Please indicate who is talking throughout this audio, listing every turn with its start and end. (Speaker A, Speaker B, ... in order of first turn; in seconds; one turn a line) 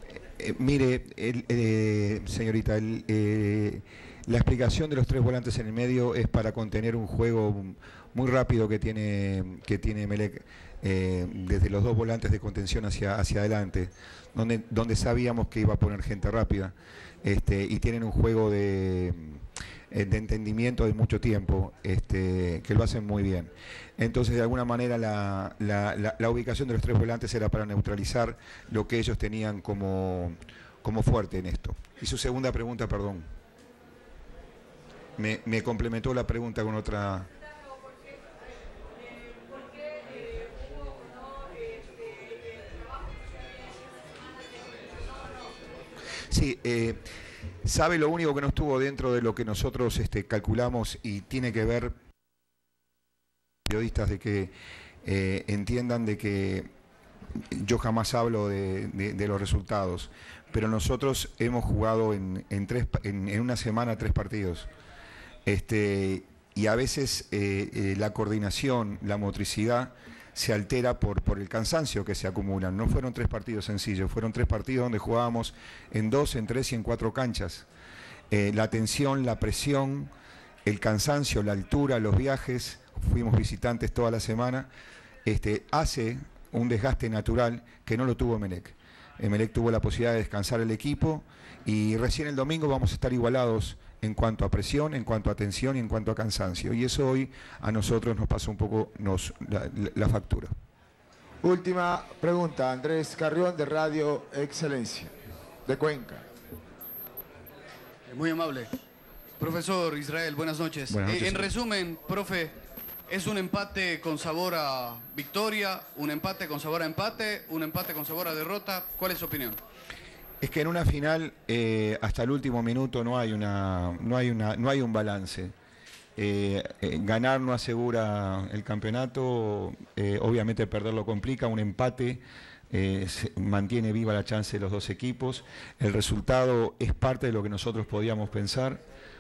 Speaker A: 0.4-19.4
Speaker A: 19.9-33.3
Speaker A: 35.2-37.3
Speaker A: 46.3-47.0
Speaker A: 47.6-51.9
Speaker A: 53.7-54.5
Speaker A: 55.0-56.7
Speaker A: 57.5-64.7
Speaker A: 65.5-77.7
Speaker A: 78.3-80.1
Speaker A: 80.7-84.7
Speaker A: 85.3-100.5
Speaker B: 101.4-105.1
Speaker B: 105.7-106.2
Speaker C: 108.1-108.7
Speaker C: 109.4-112.5
Speaker A: 110.9-111.5
Speaker C: 113.1-119.6
Speaker A: 120.4-125.5
Speaker A: 126.2-138.8